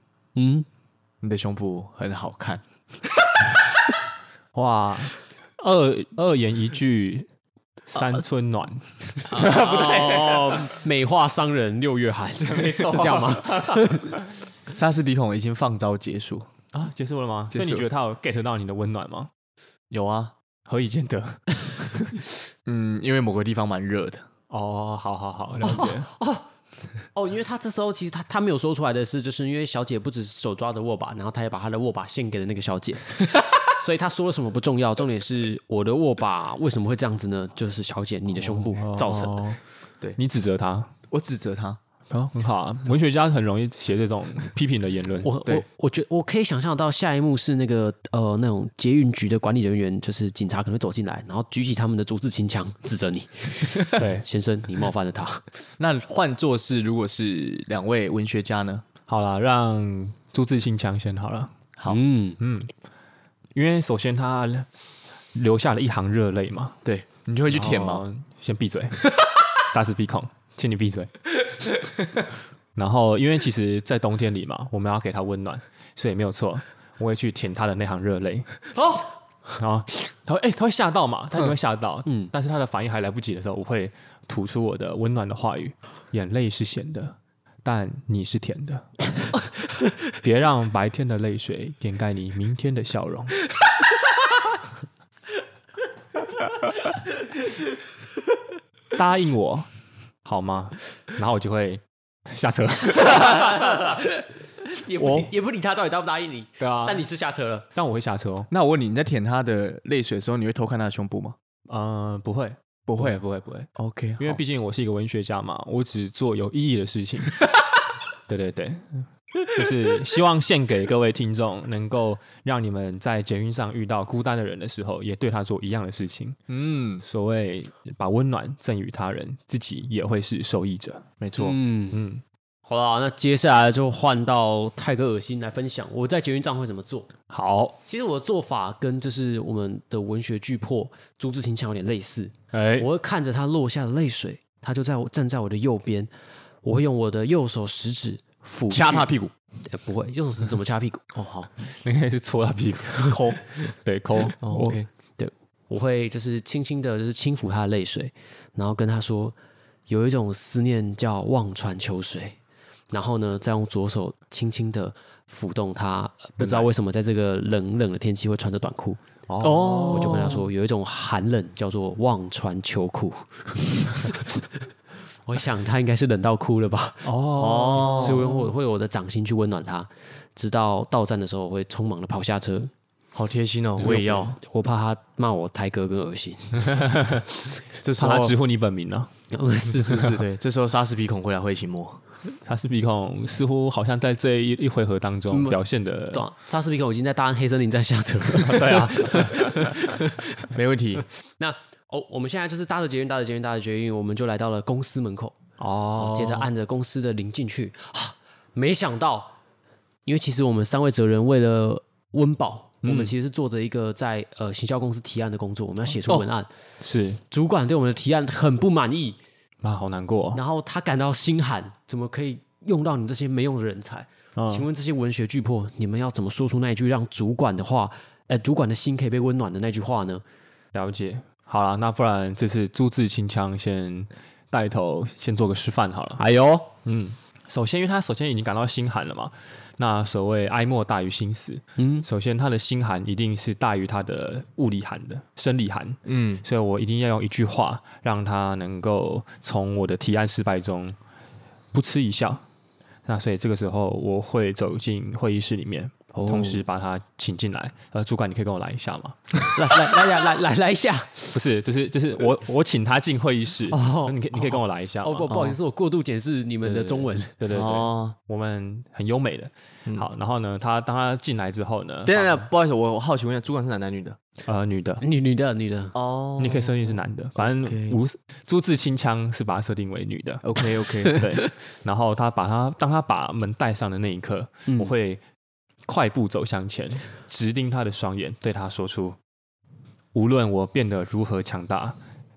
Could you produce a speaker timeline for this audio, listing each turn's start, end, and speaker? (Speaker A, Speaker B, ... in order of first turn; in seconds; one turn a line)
Speaker A: 0.3-0.7
Speaker B: 1.2-2.6
Speaker C: 4.5-7.3
Speaker C: 7.9-10.7
Speaker A: 9.3-14.1
Speaker C: 12.4-14.2
Speaker B: 14.7-16.5
Speaker C: 16.7-19.3
Speaker B: 17.5-17.8
Speaker B: 19.9-20.3
Speaker C: 20.7-22.2
Speaker B: 22.6-24.2
Speaker C: 24.5-26.1
Speaker A: 25.6-26.4
Speaker A: 27.1-39.5
Speaker C: 38.4-39.6
Speaker C: 40.2-40.9
Speaker B: 41.1-41.8
Speaker C: 42.1-45.3
Speaker A: 45.2-55.4
Speaker C: 53.9-54.2
Speaker B: 55.8-58.8
Speaker C: 59.1-61.5
Speaker A: 61.9-62.4
Speaker C: 62.4-62.7
Speaker C: 63.5-64.7
Speaker C: 65.3-66.8
Speaker B: 66.8-68.0
Speaker C: 67.5-71.1
Speaker C: 72.7-78.6
Speaker C: 79.6-88.9
Speaker A: 82.0-82.3
Speaker C: 90.1-93.4
Speaker C: 98.9-99.7
Speaker C: 100.2-103.6
Speaker A: 102.9-107.6
Speaker B: 105.0-105.3
Speaker C: 106.6-107.0
Speaker C: 107.7-108.5
Speaker B: 108.5-111.4
Speaker C: 111.7-113.2
Speaker B: 112.9-114.4
Speaker C: 114.2-117.4
Speaker C: 118.3-126.4
Speaker B: 126.5-127.0
Speaker C: 127.0-131.0
Speaker B: 131.2-131.6
Speaker A: 131.4-132.0
Speaker C: 131.9-132.2
Speaker A: 132.7-137.1
Speaker C: 137.3-137.8
Speaker A: 137.8-146.1
Speaker C: 142.5-142.9
Speaker A: 146.6-149.1
Speaker B: 148.7-149.3
Speaker A: 149.7-151.0
Speaker B: 151.1-151.5
Speaker C: 151.7-154.8
Speaker B: 153.0-153.4
Speaker B: 154.4-154.9
Speaker A: 155.2-159.3
Speaker A: 159.9-162.4
Speaker A: 162.9-169.0
Speaker C: 166.4-166.7
Speaker C: 169.3-170.4
Speaker B: 169.4-170.4
Speaker A: 169.8-174.5
Speaker A: 175.2-177.1
Speaker C: 177.0-178.4
Speaker B: 177.3-178.3
Speaker A: 177.7-182.7
Speaker B: 183.1-184.4
Speaker A: 183.8-186.9
Speaker C: 183.8-184.1
Speaker C: 186.8-187.2
Speaker B: 187.8-188.3
Speaker C: 188.0-189.1
Speaker A: 189.3-190.2
Speaker B: 189.9-192.0
Speaker C: 192.4-196.2
Speaker A: 195.3-195.6
Speaker A: 196.1-200.4
Speaker C: 198.4-199.8
Speaker B: 200.5-201.0
Speaker A: 201.4-205.3
Speaker C: 205.6-206.5
Speaker A: 205.9-209.3
Speaker A: 210.1-216.5
Speaker C: 212.8-213.1
Speaker C: 216.8-217.2
Speaker A: 217.3-219.2
Speaker C: 219.6-220.4
Speaker A: 220.3-230.2
Speaker C: 224.3-224.7
Speaker C: 230.7-236.2
Speaker A: 236.2-236.7
Speaker C: 236.8-251.0
Speaker A: 241.8-242.1
Speaker B: 246.1-246.4
Speaker C: 251.7-252.4
Speaker C: 253.1-259.2
Speaker A: 256.1-256.6
Speaker A: 259.5-261.4
Speaker C: 261.3-265.4
Speaker A: 263.7-267.4
Speaker B: 265.3-265.6
Speaker C: 266.6-272.4
Speaker B: 267.5-268.1
Speaker B: 272.0-274.2
Speaker C: 274.4-275.0
Speaker A: 275.0-275.9
Speaker B: 275.9-278.0
Speaker C: 276.4-280.4
Speaker B: 280.4-281.2
Speaker C: 281.1-285.2
Speaker A: 284.7-284.9
Speaker C: 285.9-289.2
Speaker C: 290.1-292.0